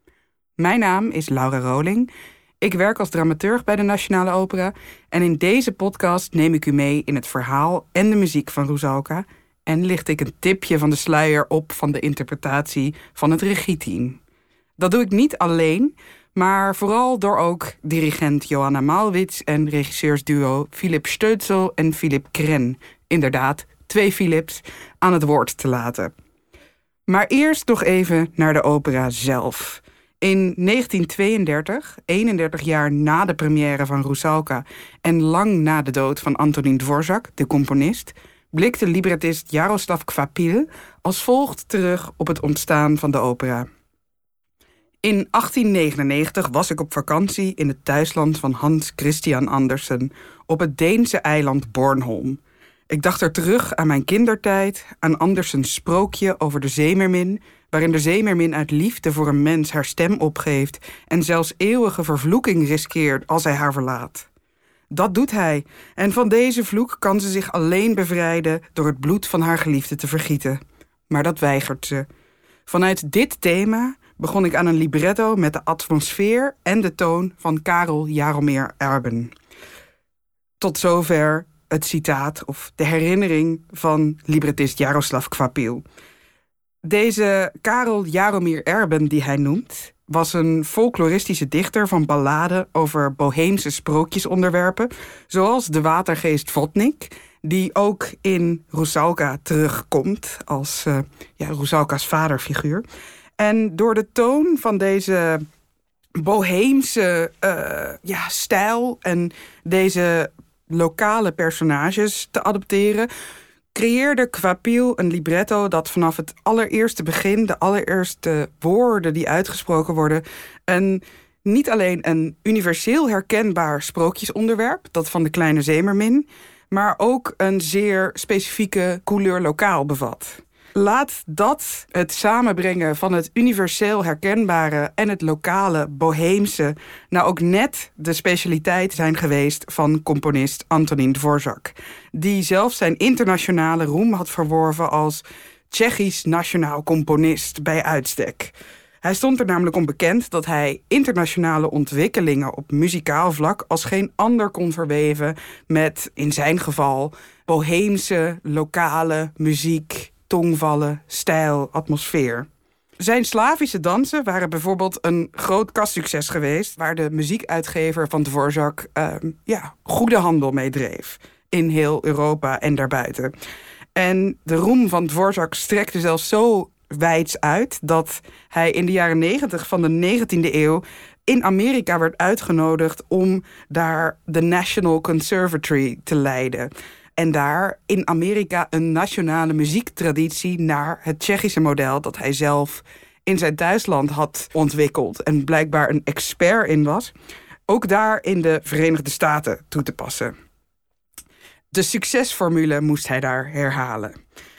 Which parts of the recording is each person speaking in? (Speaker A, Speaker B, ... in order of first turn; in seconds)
Speaker A: 0.6-14.2, 14.8-26.1, 27.1-43.7, 45.0-64.3, 64.9-70.6, 71.1-72.1, 72.7-79.3, 80.6-85.8, 86.8-102.8, 103.4-105.4, 106.2-113.1, 113.7-162.5, 163.0-173.3, 173.9-197.1, 197.7-200.3, 201.7-204.2